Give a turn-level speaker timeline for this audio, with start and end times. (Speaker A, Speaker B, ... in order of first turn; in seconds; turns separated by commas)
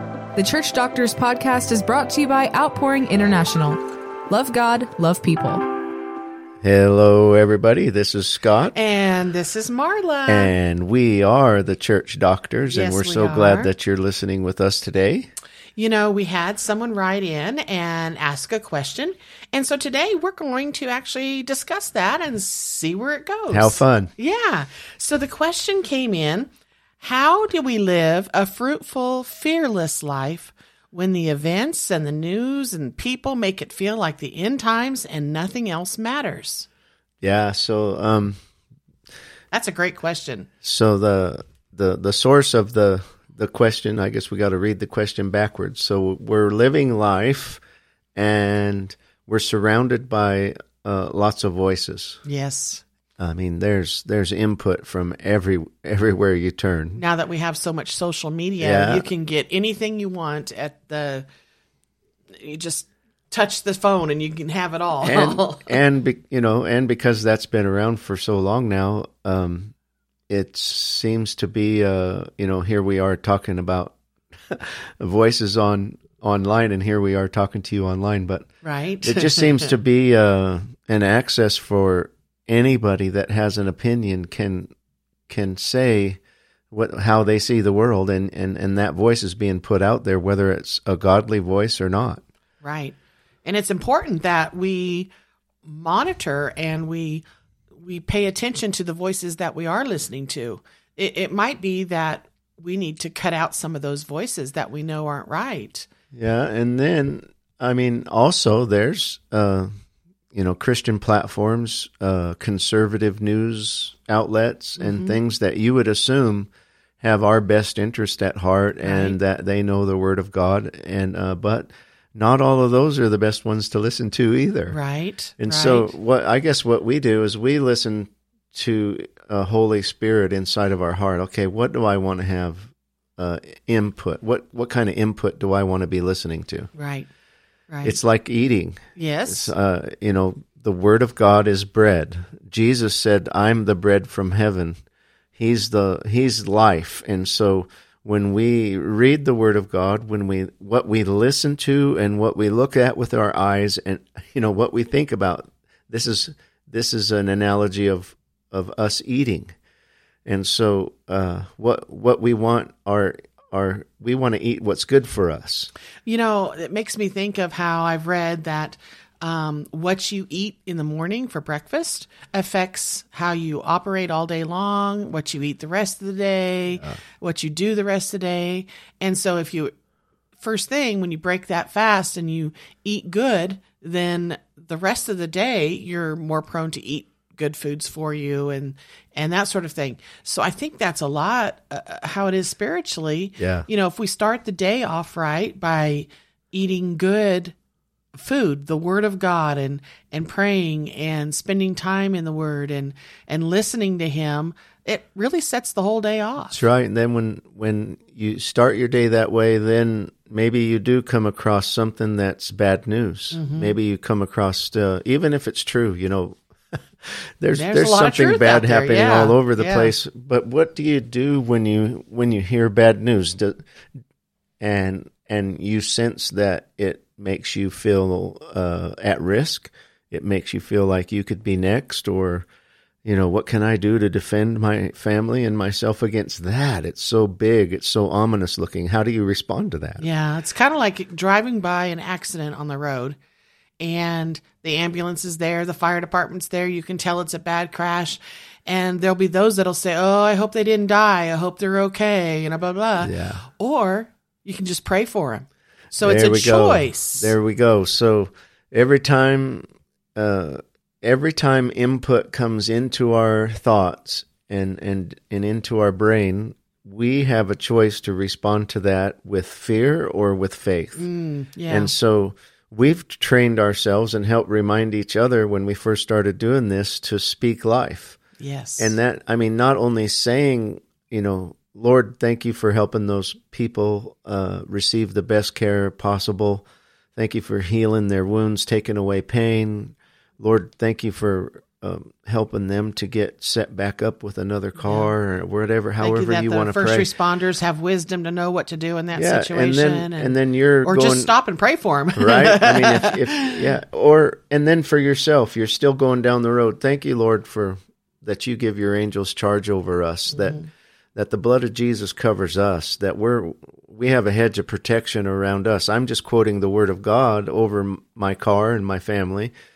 Speaker A: 0.3-5.7, Speaker B: 6.6-8.8, Speaker C: 8.7-10.5, Speaker B: 10.3-15.3, Speaker C: 12.7-13.7, Speaker C: 15.8-26.5, Speaker B: 23.5-24.1, Speaker C: 27.0-36.7, Speaker B: 37.2-38.4, Speaker C: 39.5-40.5, Speaker B: 40.6-47.6, Speaker B: 48.1-52.2, Speaker C: 52.2-52.8, Speaker B: 53.2-57.0, Speaker C: 57.0-61.3, Speaker B: 58.6-59.1, Speaker C: 62.3-65.8, Speaker B: 65.0-69.7, Speaker B: 70.3-78.5, Speaker C: 78.6-79.7, Speaker B: 79.0-84.7, Speaker B: 85.3-86.2, Speaker B: 86.7-92.2, Speaker C: 92.6-95.1, Speaker C: 95.7-105.9, Speaker B: 106.1-109.7, Speaker B: 110.3-116.5, Speaker C: 114.8-115.2, Speaker B: 117.0-124.8, Speaker C: 118.8-119.2, Speaker C: 124.7-125.9, Speaker B: 125.4-136.7, Speaker C: 136.8-137.1, Speaker C: 137.7-138.0, Speaker B: 137.8-144.8, Speaker C: 139.0-139.5, Speaker B: 145.4-159.5, Speaker B: 160.3-165.7, Speaker C: 166.1-179.7, Speaker C: 180.4-197.6, Speaker B: 193.4-193.7, Speaker C: 198.1-206.6, Speaker B: 206.5-223.6, Speaker C: 213.3-213.7, Speaker C: 217.5-219.9, Speaker B: 224.6-232.5, Speaker B: 233.1-240.1, Speaker C: 240.0-243.2, Speaker C: 243.8-257.3, Speaker B: 253.0-253.4, Speaker B: 256.0-271.1, Speaker C: 271.0-271.9, Speaker B: 271.7-278.2, Speaker C: 278.4-278.9, Speaker B: 278.8-286.6, Speaker B: 287.2-297.1, Speaker C: 294.8-295.1, Speaker C: 296.0-303.6, Speaker B: 299.1-301.3, Speaker B: 302.2-310.6, Speaker C: 310.3-310.7, Speaker B: 311.1-319.5